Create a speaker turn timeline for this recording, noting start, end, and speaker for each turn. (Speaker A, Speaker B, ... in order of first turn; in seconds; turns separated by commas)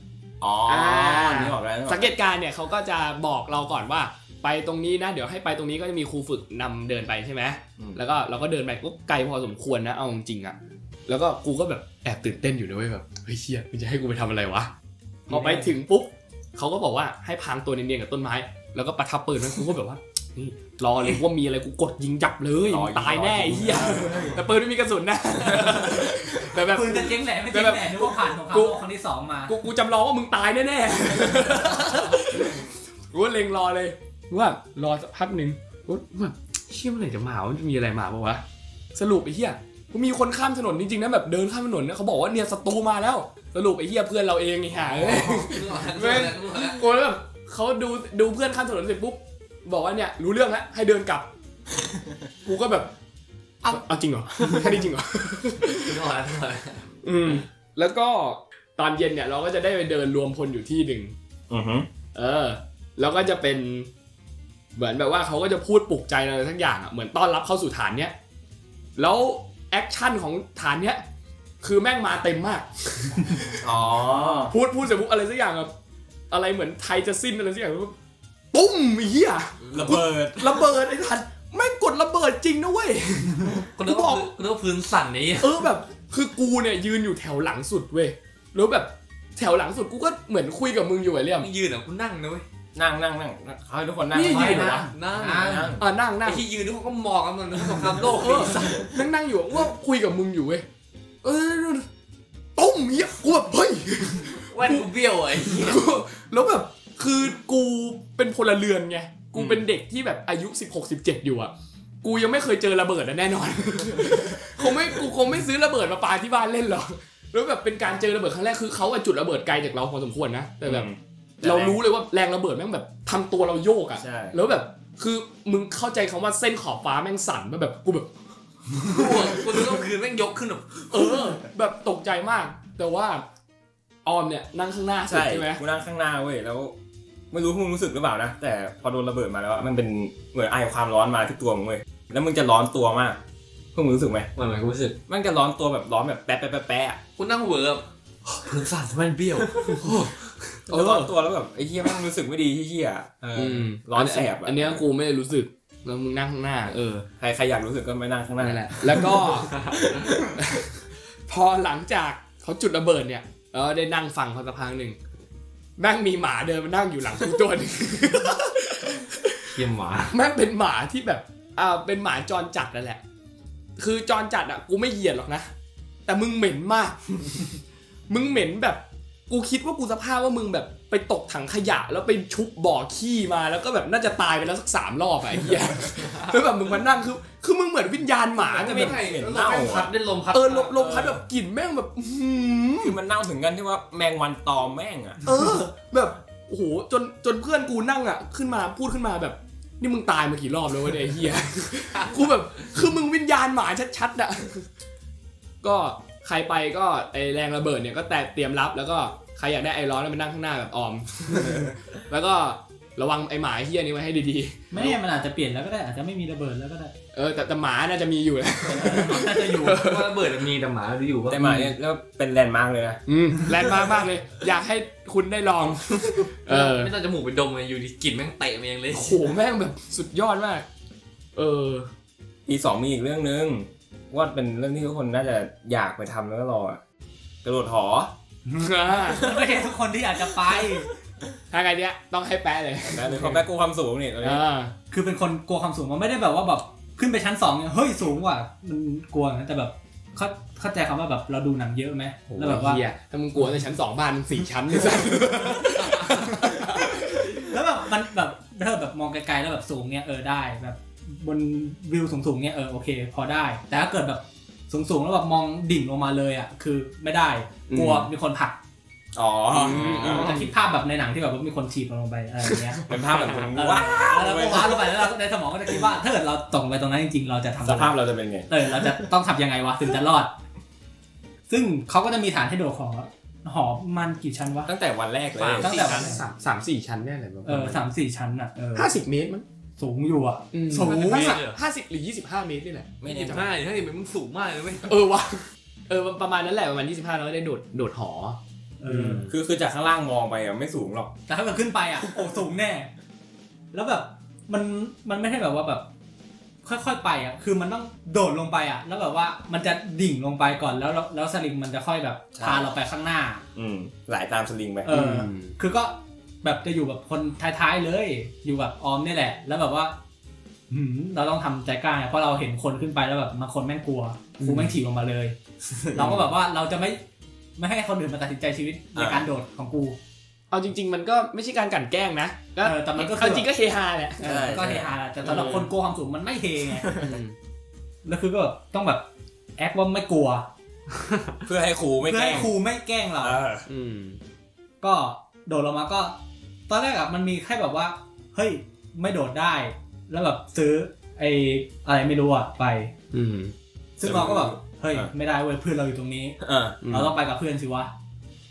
Speaker A: 0.4-2.1, Speaker B: 0.7-10.6, Speaker B: 11.1-14.7, Speaker B: 15.3-28.8, Speaker C: 15.3-15.8, Speaker A: 22.6-24.4, Speaker C: 23.8-24.4, Speaker C: 26.6-29.6, Speaker B: 29.5-38.4, Speaker B: 39.0-51.3, Speaker D: 45.0-46.8, Speaker B: 52.4-52.9, Speaker B: 53.7-56.0, Speaker D: 55.7-56.9, Speaker B: 57.0-61.1, Speaker A: 61.5-61.9, Speaker B: 62.1-63.9, Speaker B: 64.8-68.1, Speaker B: 69.0-71.0, Speaker B: 71.6-73.6, Speaker A: 73.6-74.5, Speaker B: 74.5-75.7, Speaker B: 76.3-78.0, Speaker B: 78.5-84.3, Speaker D: 79.6-80.0, Speaker A: 79.7-80.7, Speaker D: 83.4-85.6, Speaker B: 85.4-91.5, Speaker D: 91.4-92.5, Speaker A: 92.8-95.8, Speaker B: 94.1-94.9, Speaker C: 94.3-95.7, Speaker D: 94.9-98.9, Speaker B: 95.8-96.4, Speaker B: 97.8-100.7, Speaker B: 101.2-101.9, Speaker B: 102.6-111.5, Speaker D: 104.5-105.8, Speaker A: 109.3-109.7, Speaker B: 112.0-120.9, Speaker A: 120.7-121.8, Speaker B: 121.4-128.1, Speaker A: 124.0-124.4, Speaker D: 128.8-131.3, Speaker B: 129.3-129.7, Speaker B: 130.9-133.2, Speaker B: 134.1-135.6, Speaker A: 135.1-136.8, Speaker A: 137.3-143.2, Speaker A: 143.7-144.3, Speaker D: 144.4-145.0, Speaker A: 145.1-147.0, Speaker D: 147.2-150.5, Speaker B: 150.7-151.1, Speaker A: 150.7-154.8, Speaker B: 153.3-157.1, Speaker A: 157.2-160.4, Speaker B: 158.4-159.6, Speaker D: 159.4-159.8, Speaker B: 160.4-165.0, Speaker B: 165.8-169.5, Speaker D: 169.5-170.2, Speaker B: 170.1-173.0, Speaker B: 173.8-175.5, Speaker B: 176.1-177.4, Speaker B: 178.1-189.0, Speaker D: 188.4-191.2, Speaker A: 188.7-189.9, Speaker B: 190.3-193.0, Speaker A: 192.8-195.2, Speaker B: 195.2-204.7, Speaker B: 205.6-214.9, Speaker A: 211.3-211.7, Speaker C: 214.7-216.9, Speaker B: 217.1-220.2, Speaker C: 218.7-219.8, Speaker A: 218.8-219.1, Speaker D: 219.6-221.4, Speaker A: 221.3-223.0, Speaker B: 223.1-226.9, Speaker D: 226.5-229.3, Speaker B: 228.9-230.7, Speaker B: 231.3-231.9, Speaker A: 232.5-236.8, Speaker A: 237.4-238.1, Speaker C: 238.5-240.9, Speaker B: 238.6-239.3, Speaker B: 241.5-243.4, Speaker A: 242.8-244.4, Speaker B: 244.2-244.7, Speaker C: 244.9-252.8, Speaker A: 252.3-252.6, Speaker B: 252.4-257.5, Speaker C: 255.8-256.7, Speaker C: 257.2-268.6, Speaker B: 267.7-268.1, Speaker A: 269.1-270.3, Speaker B: 269.5-270.4, Speaker C: 269.9-272.8, Speaker B: 272.5-273.3, Speaker A: 272.9-275.0, Speaker C: 273.6-280.4, Speaker A: 277.6-278.9, Speaker C: 281.5-284.7, Speaker A: 284.7-285.7, Speaker D: 285.3-286.3, Speaker C: 285.6-286.2, Speaker B: 285.6-287.8, Speaker C: 287.4-288.9, Speaker B: 288.8-289.4, Speaker C: 289.8-291.4, Speaker B: 290.5-293.5, Speaker D: 290.8-291.6, Speaker A: 293.0-293.4, Speaker D: 293.1-294.9, Speaker B: 294.9-299.3, Speaker C: 298.8-299.3, Speaker A: 299.2-301.1, Speaker C: 301.3-302.9, Speaker C: 303.7-305.9, Speaker C: 306.6-313.5, Speaker A: 312.4-312.7, Speaker A: 313.6-314.9, Speaker C: 314.9-320.0, Speaker B: 314.9-315.6, Speaker C: 320.7-325.4, Speaker B: 324.4-324.7, Speaker A: 325.7-326.3, Speaker C: 325.9-327.0, Speaker C: 327.6-330.0, Speaker A: 329.0-329.3, Speaker B: 330.5-334.4, Speaker C: 332.6-333.5, Speaker C: 334.2-337.0, Speaker A: 334.2-335.0, Speaker B: 335.2-335.7, Speaker A: 336.9-337.1, Speaker B: 336.9-337.4, Speaker C: 338.0-340.5, Speaker A: 341.5-342.5, Speaker C: 342.0-343.4, Speaker A: 343.2-343.7, Speaker B: 343.7-344.2, Speaker C: 344.8-352.9, Speaker B: 353.1-353.5, Speaker C: 354.0-357.9, Speaker A: 354.0-355.1, Speaker A: 356.4-356.8, Speaker B: 356.8-357.1